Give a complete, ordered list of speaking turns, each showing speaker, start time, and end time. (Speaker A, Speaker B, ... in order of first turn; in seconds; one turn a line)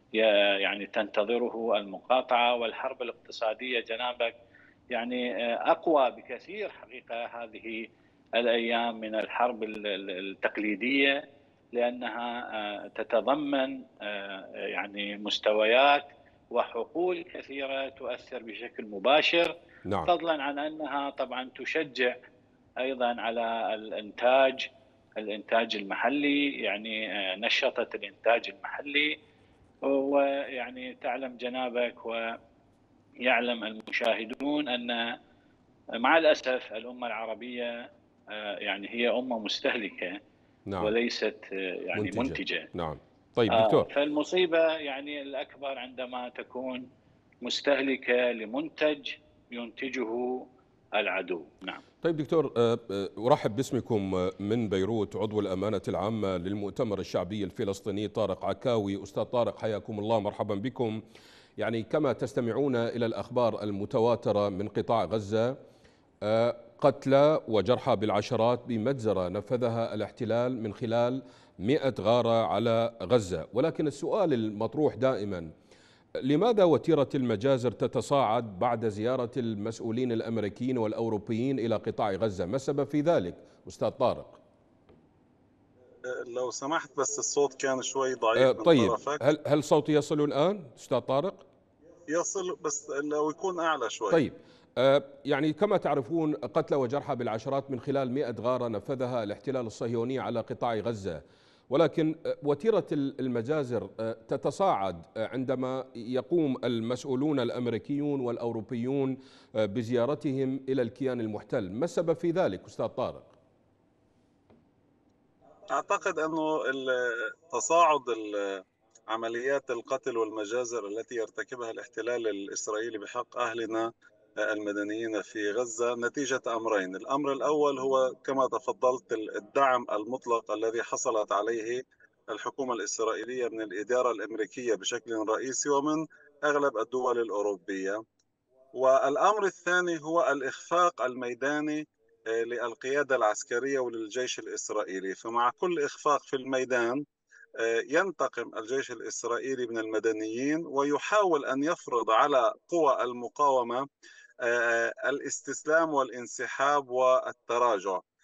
Speaker A: 0.1-4.3
Speaker A: 4.9-11.2
Speaker A: 11.7-19.5
Speaker B: 19.9-20.1
Speaker A: 20.1-22.1
Speaker A: 22.8-24.7
Speaker A: 25.2-29.1
Speaker A: 29.8-32.4
Speaker A: 33.2-35.2
Speaker A: 36.0-40.2
Speaker B: 40.7-40.9
Speaker A: 40.8-42.7
Speaker B: 42.0-43.9
Speaker A: 43.5-46.9
Speaker A: 47.4-51.8
Speaker B: 52.0-61.0
Speaker B: 61.6-65.6
Speaker B: 66.2-75.5
Speaker B: 76.2-84.4
Speaker C: 86.1-89.2
Speaker B: 88.3-91.5
Speaker C: 92.1-94.2
Speaker B: 94.1-113.3
Speaker C: 115.7-138.0
Speaker C: 138.7-147.0
Speaker C: 147.6-153.8
Speaker C: 154.4-158.0